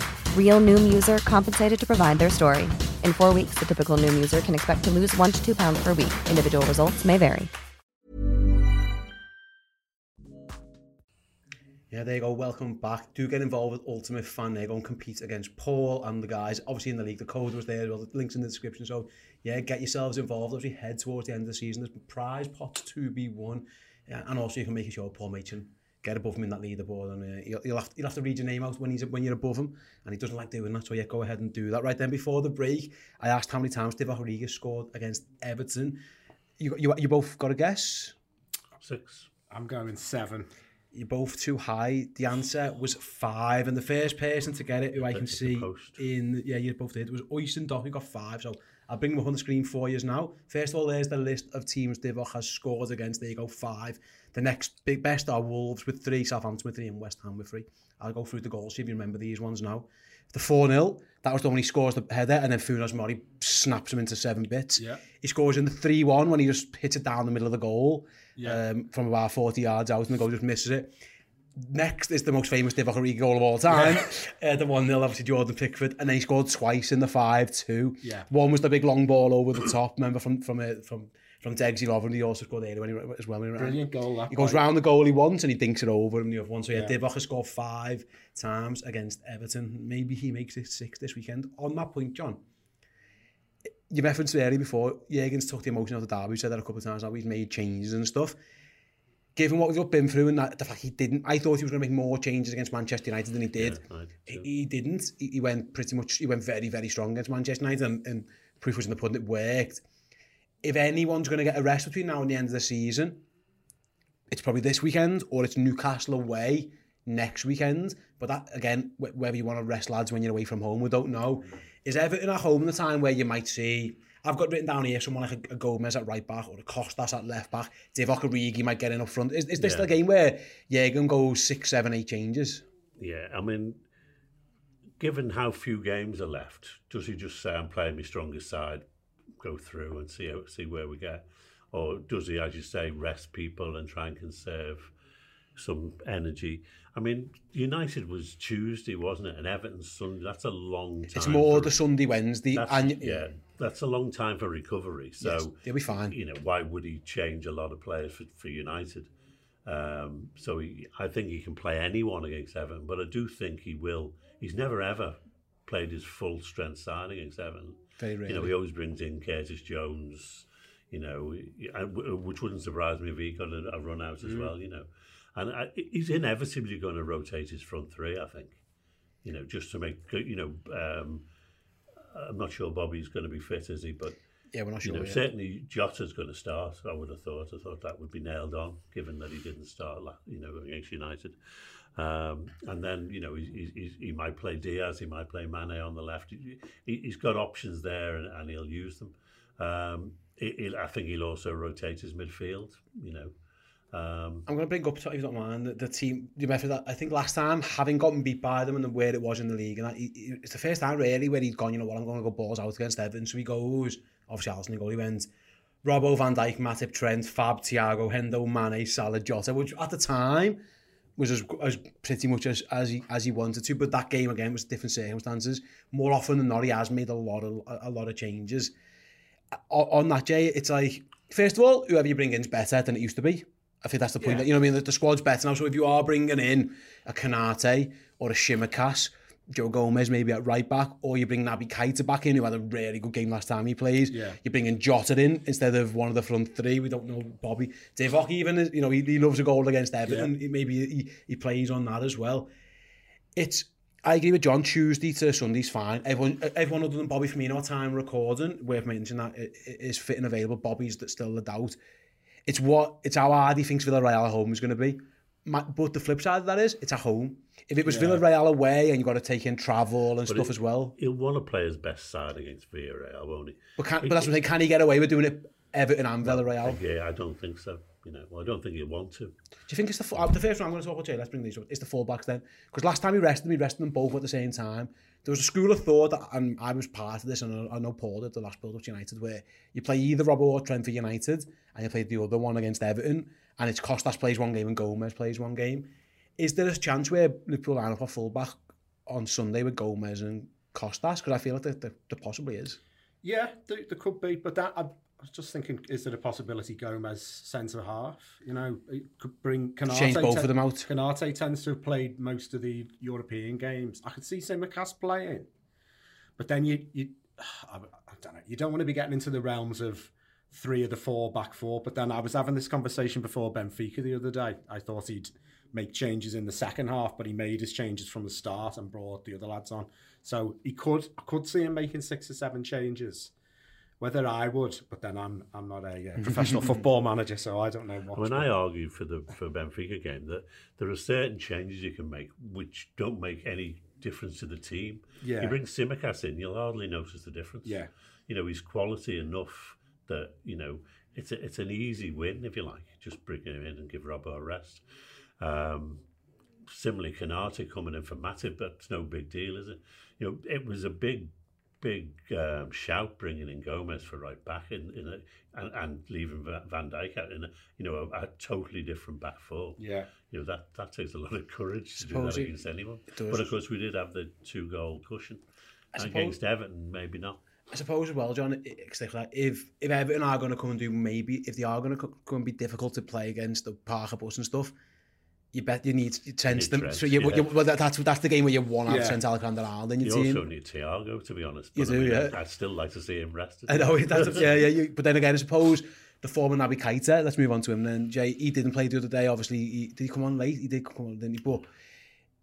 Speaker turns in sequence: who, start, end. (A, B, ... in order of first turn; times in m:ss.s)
0:00.3-0:07.5 A
0:11.9-0:36.0 B
0:36.6-0:38.2 B
0:38.8-0:39.3 C
0:39.5-0:40.5 D
0:40.9-1:10.9 B
0:45.0-0:46.0 C
1:04.8-1:05.0 D
1:08.4-1:08.6 D
1:11.6-1:32.4 B
1:13.7-1:14.1 D
1:23.6-1:24.6 D
1:33.9-1:38.4 B
1:39.4-1:49.8 B
1:43.6-1:44.5 C
1:50.6-1:53.2 B
1:54.3-2:12.6 B
2:09.6-2:09.9 C
2:13.0-2:13.8 C
2:15.0-2:18.8 C
2:19.4-2:24.9 C
2:25.6-2:31.8 C
2:31.1-2:33.3 B
2:32.5-2:39.1 C
2:35.2-2:36.2 B
2:39.6-2:58.6 C
2:48.0-2:48.5 B
2:59.2-3:01.2 C
3:02.0-3:04.2 C
3:04.5-3:05.2 B
3:04.8-3:11.4 C
3:12.0-3:23.3 C
3:23.9-3:24.5 C
3:24.5-3:35.3 B
3:35.8-3:40.6 B
3:41.2-3:48.7 B
3:49.6-4:12.5 B
3:54.2-3:54.5 D
4:04.1-4:04.4 D
4:10.1-4:10.3 D
4:13.4-4:21.8 B
4:22.5-4:31.0 B
4:27.8-4:28.2 D
4:30.3-4:34.3 C
4:33.8-4:36.8 B
4:36.2-4:39.3 C
4:39.7-5:02.8 B
5:03.2-5:15.5 D
5:09.9-5:10.9 B
5:16.4-5:33.3 D
5:34.0-5:38.5 D
5:36.2-5:36.6 B
5:38.1-5:54.8 C
5:45.2-5:45.6 D
5:47.6-5:47.9 D
5:55.4-5:56.0 C
5:56.7-6:15.4 C
6:09.8-6:10.1 D
6:12.0-6:12.6 B
6:13.1-6:13.5 B
6:16.0-6:16.4 B
6:16.0-6:17.4 C
6:17.7-6:24.8 B
6:25.5-6:30.4 B
6:26.5-6:27.6 C
6:28.9-6:29.2 D
6:30.0-6:34.7 C
6:31.8-6:32.4 B
6:33.7-6:41.7 B